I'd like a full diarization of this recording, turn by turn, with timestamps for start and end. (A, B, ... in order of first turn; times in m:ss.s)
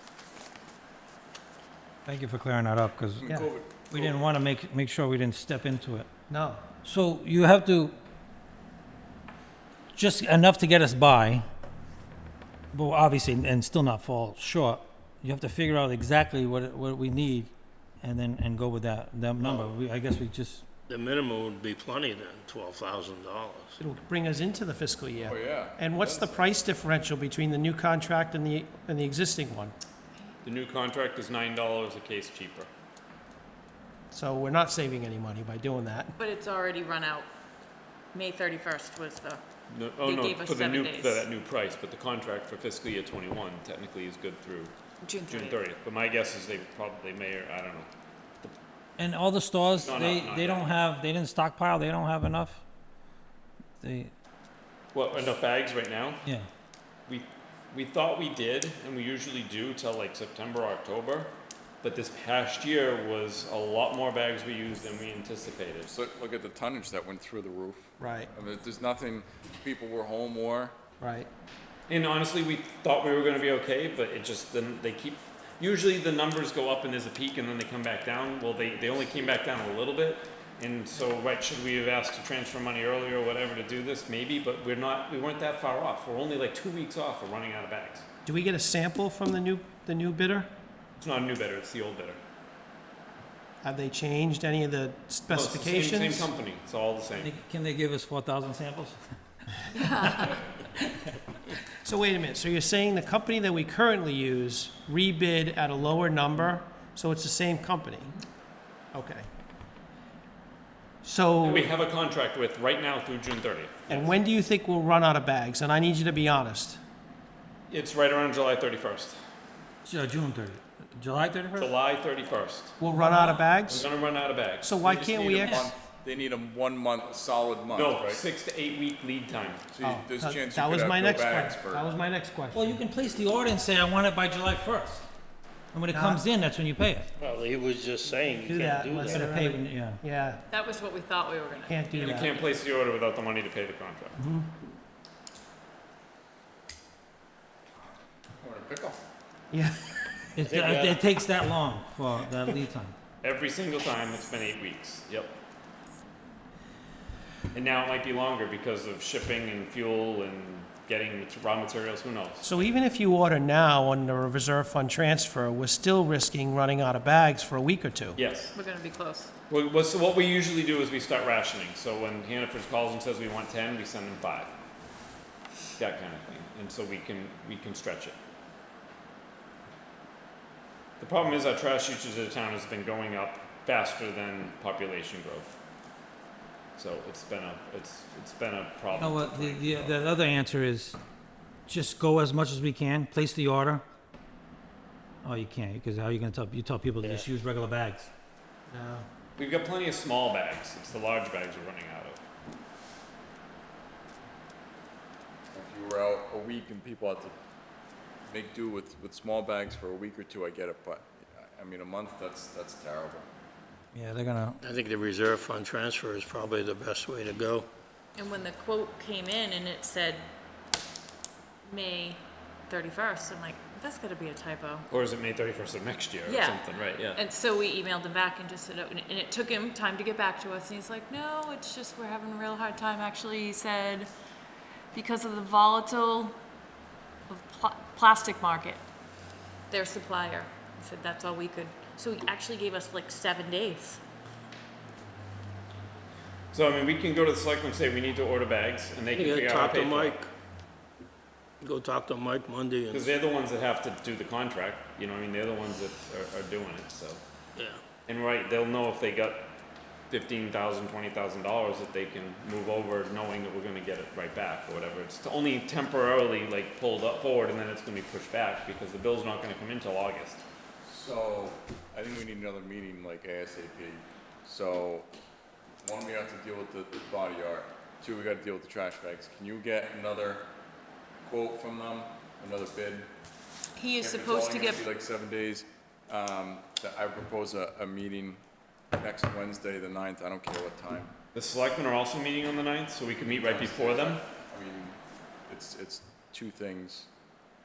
0:02.0-0:03.3 A
0:03.2-0:04.2 B
0:03.9-0:06.1 A
0:06.3-0:06.6 C
0:06.8-0:07.9 A
0:09.9-0:11.4 A
0:12.7-0:20.6 A
0:19.4-0:19.7 D
0:20.9-0:23.8 D
0:23.8-0:29.7 C
0:25.2-0:26.6 B
0:30.4-0:32.7 E
0:34.1-0:36.1 C
0:36.2-0:37.3 F
0:38.1-0:39.4 F
0:39.7-0:44.7 E
0:40.0-0:41.3 F
0:45.0-0:45.6 F
0:45.2-0:47.9 E
0:49.0-0:52.6 A
0:49.8-0:50.7 E
0:53.8-0:54.1 A
0:54.9-0:56.2 E
0:57.1-1:05.9 E
1:05.9-1:10.7 B
1:08.0-1:08.3 C
1:11.0-1:11.3 C
1:11.9-1:28.0 E
1:28.2-1:30.5 C
1:31.0-1:32.2 E
1:33.6-1:36.3 C
1:35.3-1:37.3 E
1:37.2-1:40.3 A
1:39.7-1:40.4 F
1:41.8-1:48.1 C
1:48.9-1:49.3 C
1:51.0-1:51.7 C
1:51.4-1:54.1 E
1:53.9-1:56.8 C
1:57.7-1:59.2 E
1:59.8-2:01.7 A
2:01.6-2:02.8 E
2:02.8-2:03.9 C
2:02.9-2:03.3 A
2:03.6-2:05.6 E
2:04.6-2:05.7 C
2:05.0-2:08.2 B
2:07.7-2:09.6 E
2:09.7-2:11.9 B
2:09.8-2:12.8 C
2:12.5-2:15.1 A
2:15.7-2:17.1 A
2:15.9-2:16.2 C
2:17.2-2:19.2 D
2:18.4-2:20.4 C
2:19.0-2:20.0 A
2:20.5-2:22.3 F
2:21.7-2:22.3 C
2:21.9-2:24.2 E
2:24.2-2:24.5 C
2:28.4-2:29.0 B
2:29.5-2:29.9 C
2:30.4-2:32.9 A
2:30.4-2:31.0 D
2:33.2-2:35.4 E
2:37.5-2:42.6 E
2:42.4-2:48.2 C
2:48.2-2:48.5 E
2:48.5-2:49.3 F
2:49.5-2:54.5 E
2:55.8-2:58.2 E
3:01.0-3:05.5 E
3:06.8-3:10.0 E
3:08.9-3:11.0 A
3:11.7-3:13.8 A
3:15.2-3:18.1 A
3:18.7-3:19.0 C
3:19.4-3:22.2 E
3:25.5-3:27.3 B
3:28.3-3:33.3 B
3:33.9-3:34.6 A
3:34.6-3:37.7 D
3:38.1-3:40.3 F
3:41.6-3:44.9 F
3:44.9-3:47.2 E
3:46.2-3:54.1 F
3:54.9-3:56.4 F
3:57.3-3:58.8 F
3:59.7-4:04.0 F
4:06.5-4:10.1 E
4:09.1-4:10.3 D
4:11.6-4:13.2 D
4:12.9-4:17.2 E
4:18.0-4:19.5 E
4:20.1-4:30.4 E
4:30.8-4:35.1 B
4:35.8-4:40.5 B
4:41.2-4:43.1 B
4:43.8-4:44.8 F
4:44.0-4:48.4 B
4:48.9-4:51.1 B
4:51.3-4:54.2 E
4:53.3-4:55.0 B
4:55.5-4:57.1 B